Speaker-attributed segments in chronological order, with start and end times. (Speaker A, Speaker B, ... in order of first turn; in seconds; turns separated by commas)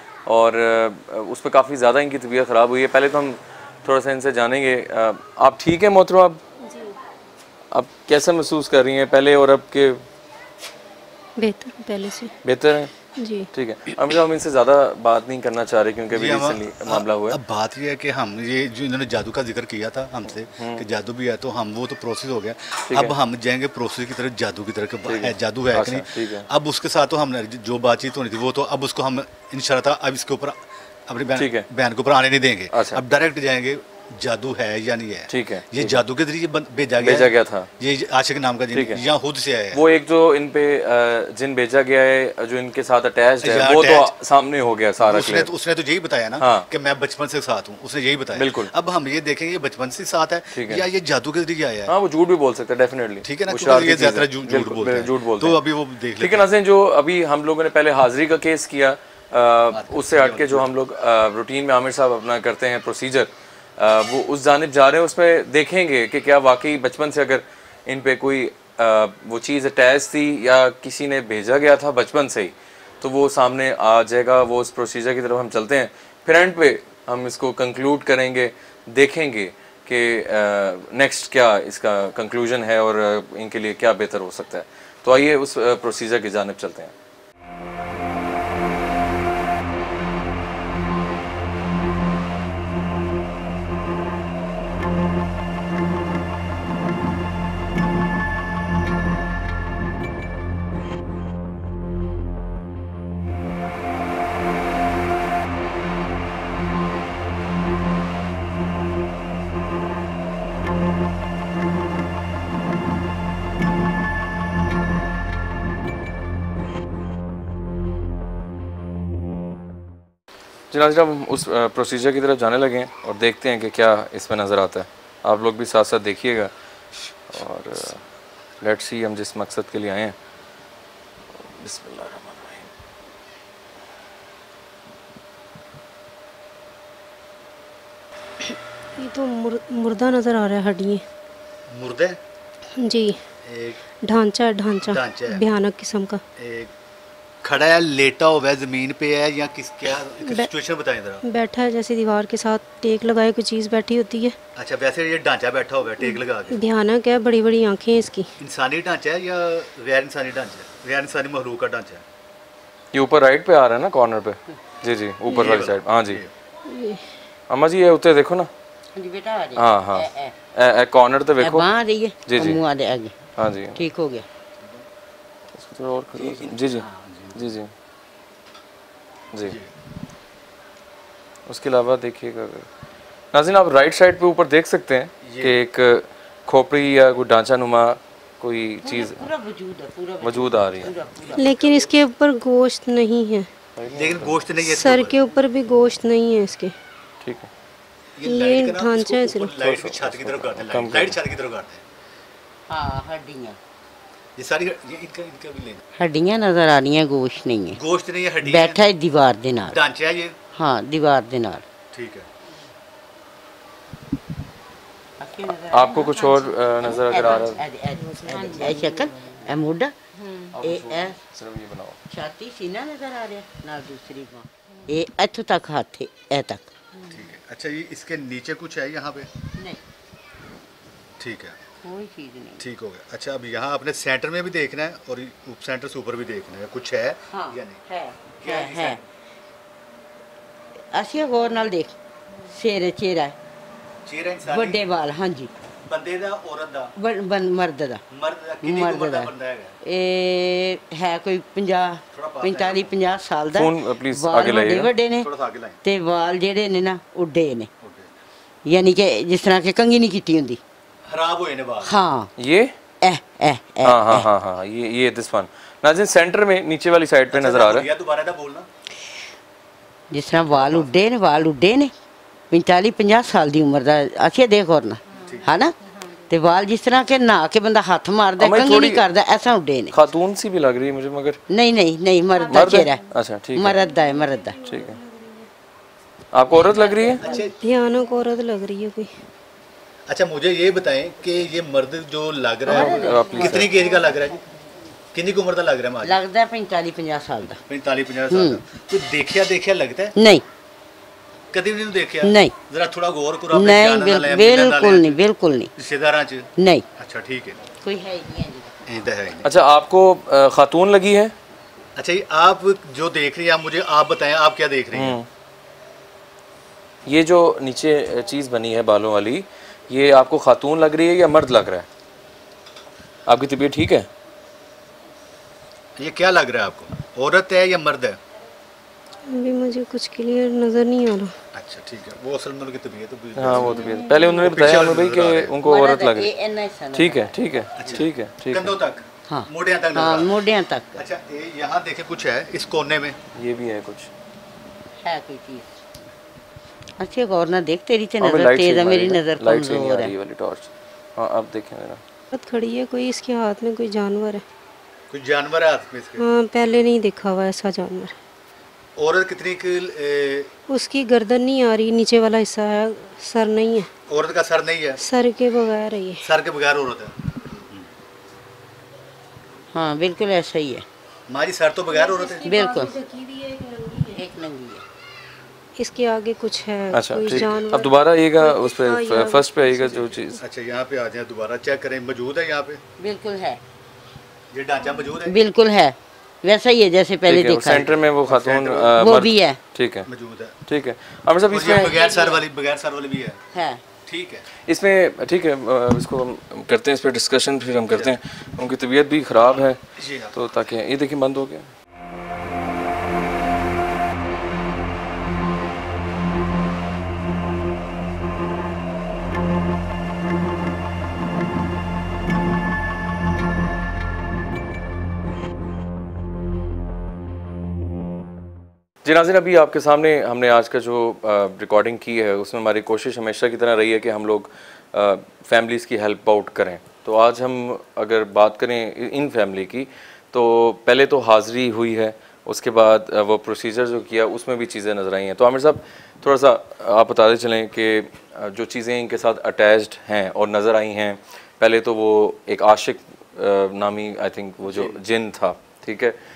Speaker A: 0.3-6.4, Speaker B: 6.6-6.9, Speaker A: 7.7-10.0, Speaker B: 11.4-12.3, Speaker A: 12.4-12.9, Speaker B: 13.2-13.5, Speaker A: 13.5-17.4, Speaker C: 16.1-39.8, Speaker A: 20.4-20.9, Speaker A: 22.9-23.1, Speaker A: 25.1-26.5, Speaker A: 31.4-31.7, Speaker A: 32.7-33.0, Speaker A: 35.3-36.0, Speaker A: 37.0-37.7, Speaker A: 38.7-39.0, Speaker A: 39.7-45.5, Speaker C: 43.4-44.1, Speaker C: 45.0-51.9, Speaker A: 46.4-46.7, Speaker A: 48.3-48.7, Speaker A: 50.5-50.8, Speaker A: 51.9-55.6, Speaker C: 53.2-56.5, Speaker A: 56.2-86.9, Speaker C: 59.7-60.7, Speaker A: 120.7-126.5, Speaker A: 127.3-128.0, Speaker A: 128.6-130.1, Speaker A: 131.5-132.7, Speaker B: 139.0-141.0, Speaker C: 141.7-142.2, Speaker B: 142.8-143.2, Speaker C: 143.4-143.8, Speaker B: 144.0-146.2, Speaker C: 144.8-145.4, Speaker C: 146.4-146.7, Speaker C: 147.4-151.2, Speaker B: 151.2-154.3, Speaker C: 154.6-156.6, Speaker B: 156.1-158.3, Speaker C: 158.4-162.0, Speaker A: 162.9-166.2, Speaker C: 165.3-166.3, Speaker B: 166.7-167.0, Speaker A: 167.5-168.5, Speaker D: 168.9-170.3, Speaker A: 169.6-171.7, Speaker D: 171.4-173.1, Speaker A: 172.2-172.6, Speaker A: 173.4-173.8, Speaker D: 173.7-174.2, Speaker A: 175.6-177.7, Speaker C: 176.1-177.5, Speaker A: 181.5-182.7, Speaker A: 183.3-189.2, Speaker C: 185.2-185.6, Speaker D: 188.8-191.9, Speaker A: 190.2-190.9, Speaker B: 191.4-193.5, Speaker A: 193.8-194.4, Speaker C: 193.9-195.2, Speaker B: 194.6-196.7, Speaker A: 197.2-197.5, Speaker C: 198.2-201.8, Speaker B: 198.2-199.5, Speaker A: 199.6-201.2, Speaker D: 202.7-203.6, Speaker C: 204.3-205.8, Speaker D: 206.0-207.8, Speaker C: 207.8-208.8, Speaker D: 208.4-209.8, Speaker C: 209.7-210.3, Speaker D: 210.5-211.6, Speaker C: 211.9-212.3, Speaker D: 215.2-221.2, Speaker A: 215.7-217.6, Speaker A: 220.5-222.0, Speaker D: 222.1-227.1, Speaker C: 227.1-229.3, Speaker C: 231.2-231.6, Speaker D: 231.8-232.6, Speaker C: 232.6-237.8, Speaker D: 237.3-239.0, Speaker C: 238.4-239.0, Speaker D: 240.9-241.9, Speaker D: 242.5-243.3, Speaker C: 244.0-244.8, Speaker D: 244.5-245.5, Speaker C: 245.9-246.9, Speaker D: 247.0-248.0, Speaker C: 248.1-249.7, Speaker D: 248.6-249.3, Speaker D: 249.8-255.3, Speaker C: 252.1-252.9, Speaker A: 253.5-254.9, Speaker C: 255.2-255.8, Speaker D: 255.8-257.7, Speaker C: 257.8-258.1, Speaker D: 258.6-260.6, Speaker C: 261.1-261.9, Speaker D: 261.8-262.3, Speaker A: 262.4-262.7, Speaker D: 263.0-264.3, Speaker A: 263.8-267.9, Speaker C: 267.3-268.7, Speaker D: 270.1-271.9, Speaker C: 270.5-270.9, Speaker D: 272.5-279.9, Speaker C: 275.2-275.5, Speaker A: 278.4-279.0, Speaker A: 279.9-281.4, Speaker D: 281.5-284.6, Speaker A: 282.5-283.8, Speaker A: 284.6-285.0, Speaker A: 286.3-287.2, Speaker D: 286.6-287.4, Speaker C: 287.2-287.5, Speaker B: 287.3-289.1, Speaker C: 290.1-294.4, Speaker A: 292.6-293.9, Speaker D: 292.7-293.6, Speaker C: 295.1-296.2, Speaker D: 296.0-297.6, Speaker C: 297.7-300.1, Speaker D: 298.3-298.6, Speaker D: 300.1-300.4, Speaker C: 301.5-305.2, Speaker D: 302.2-302.5, Speaker D: 303.5-305.7, Speaker C: 305.8-307.6, Speaker D: 306.6-306.8, Speaker D: 307.8-308.8, Speaker C: 308.9-309.5, Speaker A: 309.4-311.3, Speaker C: 312.0-315.2, Speaker A: 314.9-315.3, Speaker A: 317.1-321.9, Speaker A: 323.3-324.1, Speaker C: 326.0-328.2, Speaker B: 329.3-331.3, Speaker C: 331.5-335.6, Speaker A: 333.4-336.3, Speaker B: 333.8-334.4, Speaker D: 335.6-337.3, Speaker A: 336.9-338.7, Speaker C: 337.8-340.4, Speaker D: 339.3-341.0, Speaker C: 340.9-343.2, Speaker A: 343.3-344.1, Speaker D: 345.0-345.7, Speaker D: 347.0-350.1, Speaker A: 348.2-352.0, Speaker B: 352.3-354.4, Speaker C: 355.1-356.2, Speaker B: 356.2-358.1, Speaker C: 359.0-360.5, Speaker B: 360.7-363.9, Speaker C: 364.1-365.0, Speaker B: 365.0-366.2, Speaker C: 366.2-367.9, Speaker D: 369.7-370.8, Speaker C: 371.3-372.5, Speaker B: 372.0-374.2, Speaker D: 372.4-373.0, Speaker D: 374.1-374.8, Speaker B: 375.8-380.0, Speaker A: 376.9-380.4, Speaker C: 379.8-382.8, Speaker D: 383.0-383.6, Speaker C: 384.5-385.4, Speaker D: 385.2-387.9, Speaker A: 387.3-390.1, Speaker C: 388.2-389.1, Speaker D: 389.0-389.6, Speaker C: 390.0-390.5, Speaker A: 390.7-392.1, Speaker C: 391.5-393.4, Speaker D: 391.5-392.4, Speaker D: 393.5-393.8, Speaker C: 394.0-394.5, Speaker A: 394.7-399.8, Speaker C: 397.9-398.2, Speaker C: 400.0-400.4, Speaker A: 400.3-401.7, Speaker A: 419.0-446.1, Speaker C: 444.6-445.0